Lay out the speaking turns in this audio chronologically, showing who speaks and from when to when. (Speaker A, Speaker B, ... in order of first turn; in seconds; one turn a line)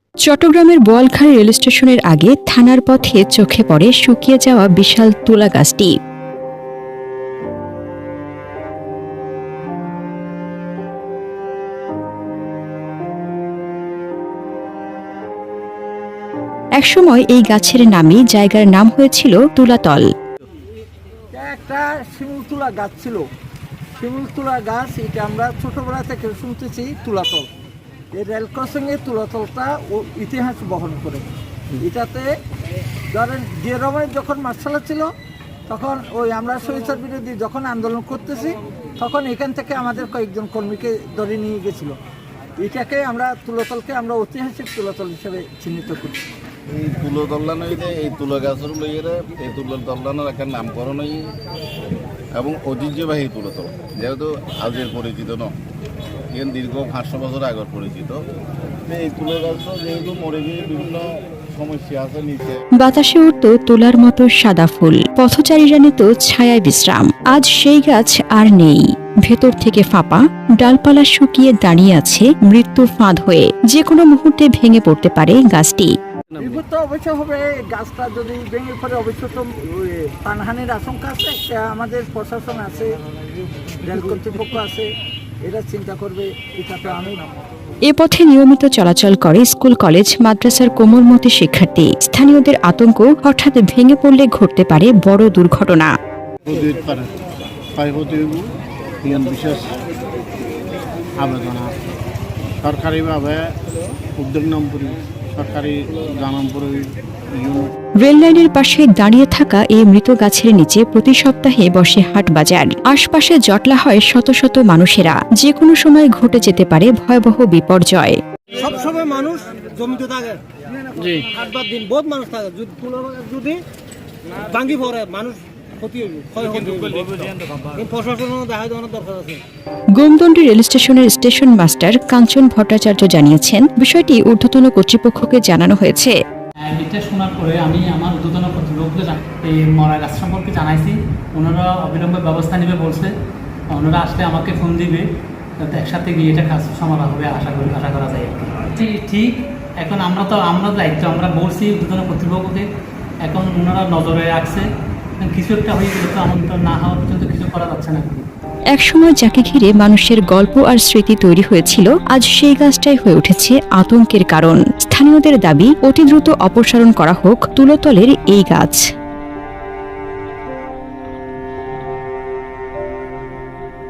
Speaker A: 0.2-5.9
Speaker A: 16.8-20.1
Speaker B: 21.3-23.2
Speaker B: 24.0-27.4
Speaker B: 28.1-31.3
Speaker B: 31.8-32.3
Speaker B: 33.1-35.1
Speaker B: 35.7-42.0
Speaker B: 42.6-46.2
Speaker C: 46.7-51.2
Speaker C: 52.3-55.5
Speaker C: 56.3-58.2
Speaker C: 58.9-62.6
Speaker A: 62.8-75.9
Speaker B: 76.4-83.0
Speaker B: 83.8-84.9
Speaker B: 85.4-87.3
Speaker A: 87.9-95.9
Speaker D: 96.5-97.1
Speaker D: 97.8-98.4
Speaker D: 99.0-99.7
Speaker D: 101.2-101.7
Speaker D: 102.6-103.4
Speaker D: 104.2-106.8
Speaker A: 108.0-118.2
Speaker E: 118.5-120.4
Speaker E: 121.2-123.6
Speaker E: 124.5-129.4
Speaker A: 130.0-136.2
Speaker F: 136.6-143.1
Speaker F: 143.7-145.1
Speaker F: 145.6-152.7
Speaker F: 153.2-154.7
Speaker F: 155.2-158.3
Speaker A: 158.7-168.8